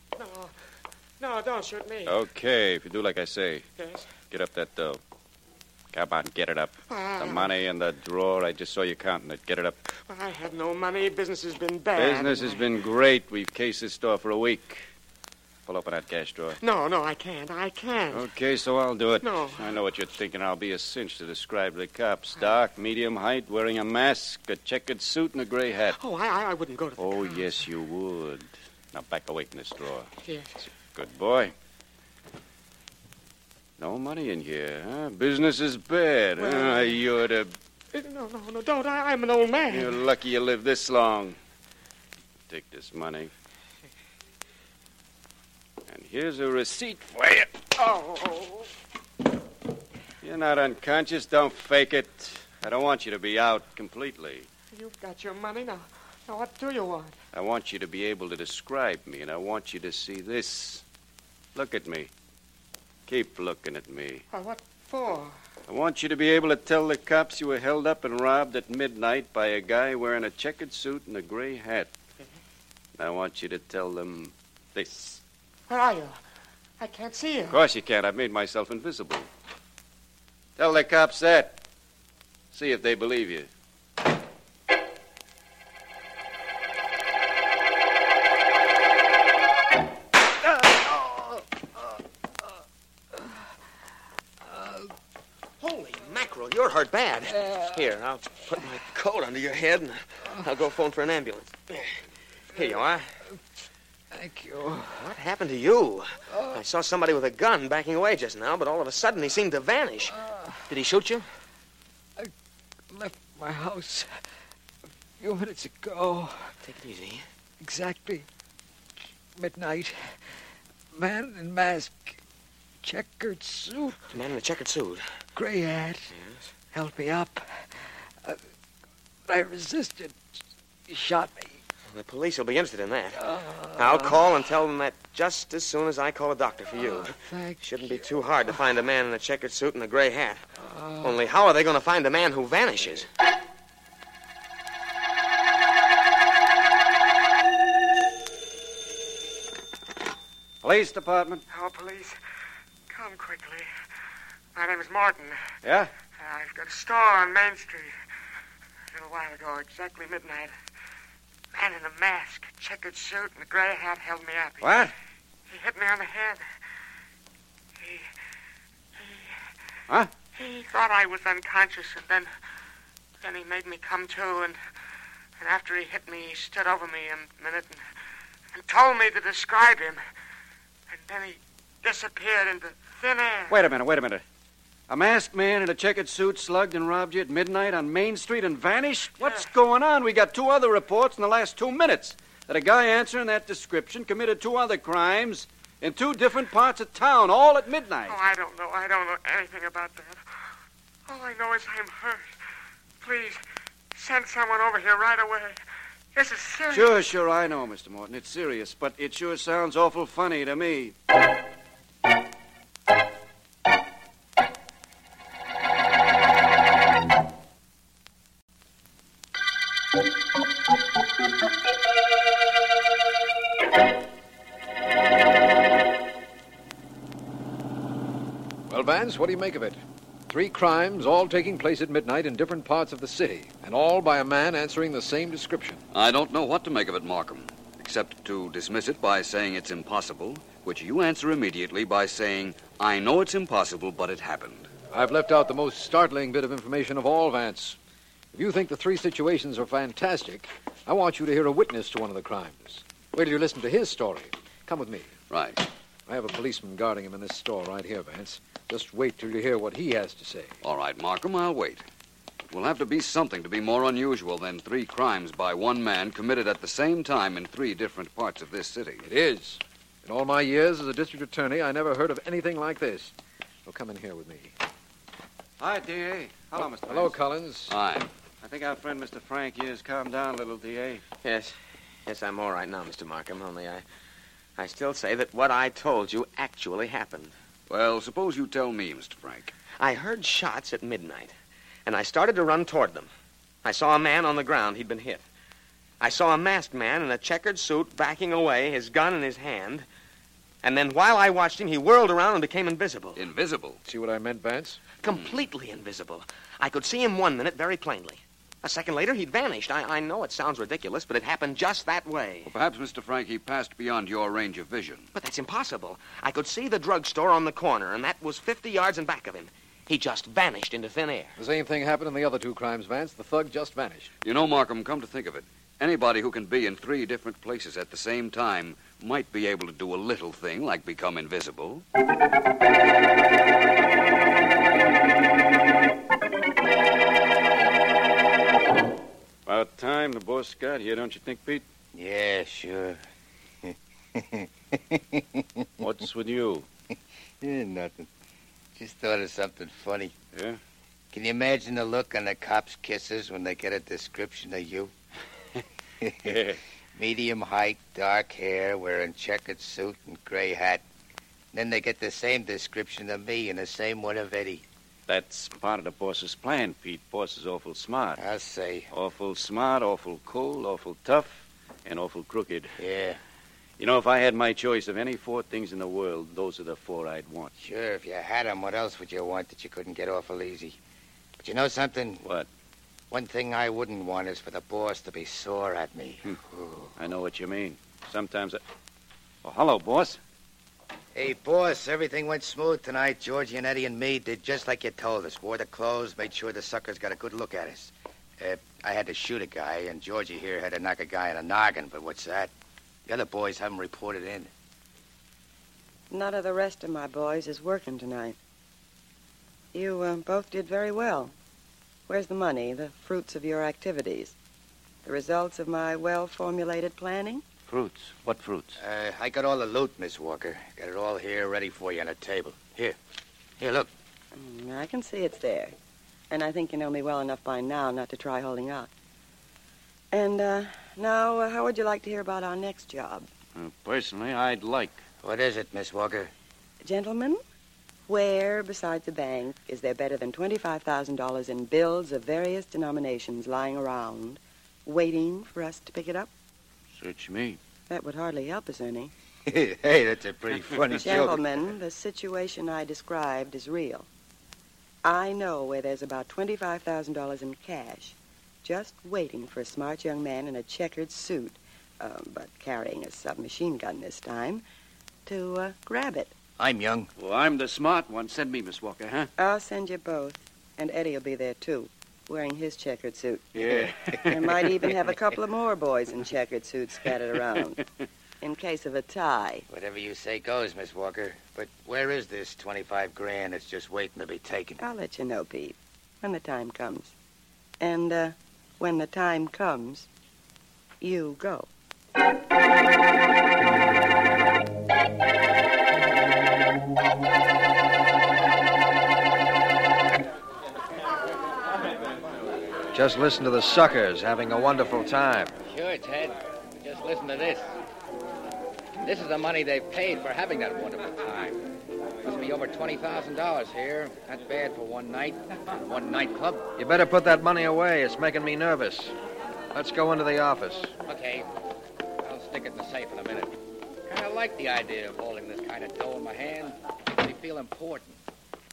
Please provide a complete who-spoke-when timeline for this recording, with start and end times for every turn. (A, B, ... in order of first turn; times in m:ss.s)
0:00.2-0:00.5 A
0:01.2-0:02.2 A
0:02.1-0:03.7 B
0:03.8-0:04.1 A
0:04.3-0:05.0 B
0:05.9-0:09.8 B
0:06.9-0:07.6 A
0:10.1-0:12.7 A
0:12.0-0:14.9 B
0:15.7-0:16.6 B
0:16.6-0:18.3 A
0:18.1-0:26.0 B
0:19.2-0:19.8 A
0:25.9-0:27.7 A
0:27.0-0:30.1 B
0:30.2-0:30.5 A
0:30.9-0:31.5 B
0:33.8-0:37.5 B
0:36.4-0:37.0 A
0:37.9-0:40.0 A
0:39.7-0:41.4 B
0:42.5-0:43.3 B
0:45.9-0:47.6 B
0:47.8-0:48.7 A
0:50.2-0:54.5 B
0:54.7-0:57.2 A
0:57.3-1:00.8 B
1:01.6-1:02.1 B
1:03.1-1:04.2 B
1:04.3-1:05.4 A
1:05.7-1:11.9 B
1:13.0-1:15.2 B
1:15.7-1:16.2 A
1:16.8-1:17.6 A
1:17.5-1:19.3 B
1:20.6-1:21.6 B
1:22.5-1:23.5 B
1:34.5-1:34.8 C
1:35.6-1:41.6 D
1:37.4-1:37.7 C
1:42.5-1:43.1 D
1:44.1-1:45.1 C
1:45.0-1:50.2 D
1:46.3-1:46.6 C
1:50.1-1:50.6 C
1:50.7-1:51.3 D
1:52.9-1:54.2 C
1:55.2-1:56.6 C
1:56.6-1:57.2 D
1:57.6-1:58.3 C
1:59.4-2:00.0 C
2:01.0-2:02.2 C
2:02.8-2:04.0 C
2:04.1-2:05.0 D
2:05.4-2:06.0 C
2:06.1-2:06.5 D
2:06.7-2:07.5 C
2:09.3-2:10.2 C
2:10.9-2:11.4 C
2:11.9-2:20.4 D
2:13.4-2:13.9 C
2:21.0-2:23.1 D
2:30.6-2:31.4 B
2:31.5-2:32.2 A
2:32.9-2:33.7 A
2:34.6-2:35.4 A
2:35.6-2:35.9 B
2:36.2-2:37.9 A
2:38.9-2:40.5 A
2:41.5-2:44.9 A
2:44.6-2:44.9 B
2:45.5-2:46.4 A
2:47.8-2:48.1 A
2:49.0-2:49.4 A
2:50.4-2:52.3 A
2:53.2-2:54.6 A
2:55.4-2:57.8 A
2:58.5-3:00.0 A
3:00.9-3:03.6 A
3:03.5-3:04.2 B
3:04.9-3:18.2 B
3:09.2-3:09.5 A
3:18.1-3:20.2 A
3:21.1-3:22.3 A
3:23.0-3:23.4 A
3:23.9-3:25.6 A
3:26.1-3:27.0 A
3:26.7-3:31.0 B
3:48.7-3:55.8 C
3:55.9-4:04.7 E
4:04.9-4:07.8 C
4:08.3-4:15.2 C
4:15.3-4:15.6 E
4:16.1-4:20.6 C
4:20.6-4:21.8 E
4:22.5-4:29.1 E
4:29.0-4:33.1 C
4:33.6-4:34.5 C
4:35.6-4:37.2 B
4:36.9-4:37.8 C
4:37.7-4:38.1 E
4:38.4-4:41.0 B
4:41.2-4:41.6 D
4:42.1-4:43.8 D
4:44.6-4:47.3 D
4:47.7-4:49.5 E
4:49.8-4:51.3 D
4:51.9-4:53.1 D
4:53.6-4:55.2 D
4:56.0-4:59.9 D
5:00.6-5:03.2 D
5:03.2-5:03.8 E
5:03.8-5:04.8 C
5:05.0-5:12.5 D
5:12.4-5:15.1 E
5:15.1-5:21.3 D
5:21.4-5:24.1 C
5:24.2-5:31.8 E
5:39.5-5:41.6 B
5:42.0-5:43.0 F
5:43.6-5:45.7 F
5:45.8-5:46.7 B
5:47.4-5:48.1 F
5:48.8-5:50.1 F
5:50.3-5:50.6 B
5:51.1-5:54.9 F
5:56.0-6:00.8 F
5:56.2-5:56.6 B
6:01.5-6:04.6 F
6:05.1-6:08.2 B
6:08.2-6:08.9 F
6:08.9-6:12.8 B
6:12.8-6:13.2 F
6:13.8-6:17.5 B
6:17.6-6:20.8 F
6:21.4-6:22.2 F
6:22.2-6:22.5 B
6:23.1-6:26.9 F
6:27.0-6:28.6 B
6:29.4-6:30.2 B
6:31.1-6:42.5 F
6:43.1-6:44.5 F
6:46.1-6:48.4 G
6:49.7-6:51.3 G
6:52.1-6:54.4 G
6:55.0-6:57.4 G
6:57.7-6:58.8 B
6:58.8-7:03.0 F
7:03.6-7:03.9 F
7:04.3-7:05.7 G
7:06.3-7:08.9 G
7:10.1-7:13.3 G
7:13.6-7:15.0 B
7:15.2-7:16.3 F
7:16.8-7:17.4 G
7:18.1-7:26.3 G
7:26.9-7:27.6 B
7:27.9-7:29.1 G
7:29.5-7:31.4 F
7:31.0-7:34.1 G
7:35.0-7:44.6 G
7:45.3-7:46.3 G
7:46.6-7:47.1 F
7:47.2-7:49.3 B
7:49.4-7:53.5 G
7:53.6-7:54.3 B
7:54.2-7:57.8 G
7:58.4-7:59.7 G
7:59.7-8:04.8 F
8:04.8-8:07.2 G
8:07.8-8:10.1 G
8:11.0-8:11.7 G
8:22.9-8:25.5 H
8:25.7-8:27.7 I
8:29.0-8:31.6 I
8:32.2-8:36.7 I
8:36.8-8:39.1 H
8:39.7-8:40.9 H
8:41.0-8:41.5 I
8:42.2-8:48.2 I